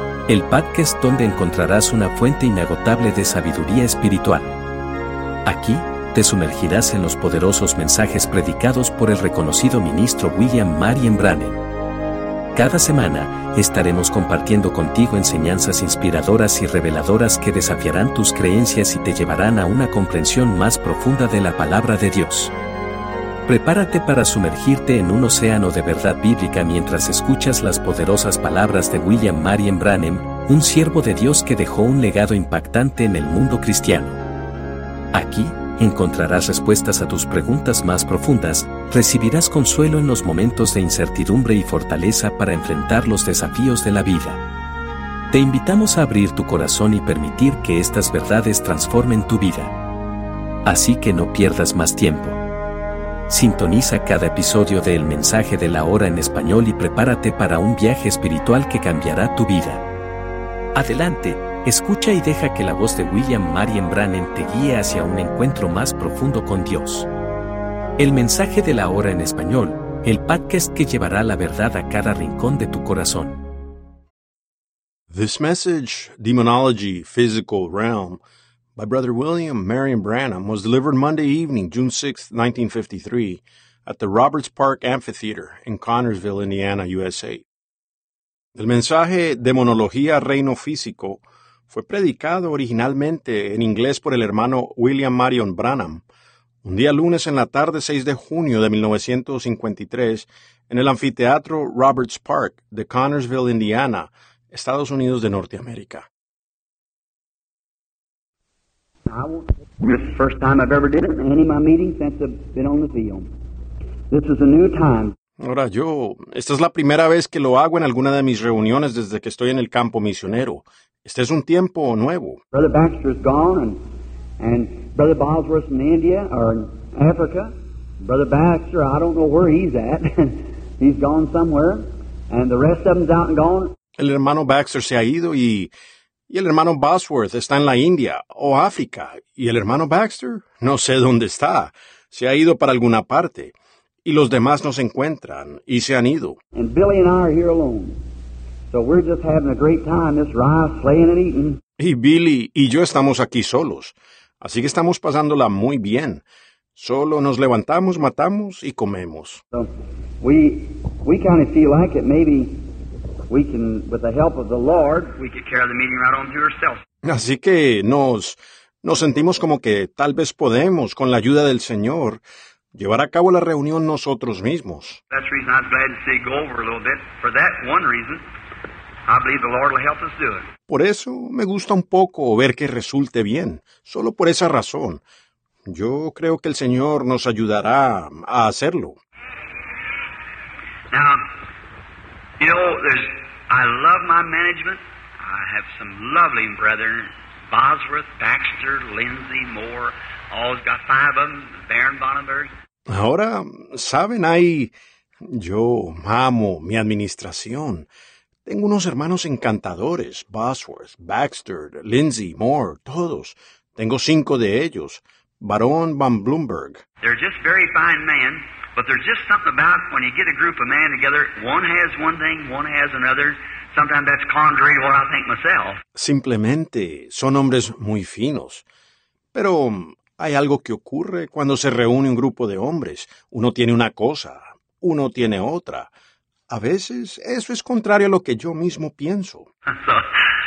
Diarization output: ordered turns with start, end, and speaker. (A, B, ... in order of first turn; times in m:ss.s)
0:00.3-0:04.5 A
0:05.4-0:11.6 A
0:12.5-0:22.5 A
0:23.4-0:34.2 A
0:35.1-0:44.4 A
0:45.3-0:49.7 A
0:50.6-0:52.4 A
0:53.3-0:59.8 A
1:00.7-1:07.1 A
1:08.0-1:13.4 A
1:15.1-1:18.2 B
1:18.8-1:27.4 B
1:28.5-1:36.0 B
1:36.6-1:46.0 B
1:49.0-1:53.3 C
1:54.1-1:55.1 C
1:55.4-2:02.4 B
2:02.5-2:03.8 C
2:04.4-2:13.7 C
2:14.0-2:15.7 B
2:16.3-2:23.5 B
2:24.0-2:26.4 B
2:26.5-2:28.0 C
2:28.7-2:31.6 C
2:31.8-2:36.2 B
2:36.8-2:39.4 B
2:40.2-2:42.6 C
2:43.3-2:46.8 C
2:47.0-2:52.2 B
2:52.7-2:55.0 B
2:55.1-2:58.2 C
2:59.1-3:00.5 C
3:00.7-3:05.0 B
3:05.6-3:09.0 B
3:10.9-3:11.2 C
3:12.4-3:22.5 C
3:22.9-3:24.7 B
3:25.2-3:27.9 B
3:28.4-3:36.8 B
3:37.0-3:45.8 C
3:46.0-3:48.6 B
3:49.3-3:55.9 B
3:56.5-3:59.4 B
3:59.7-4:00.2 C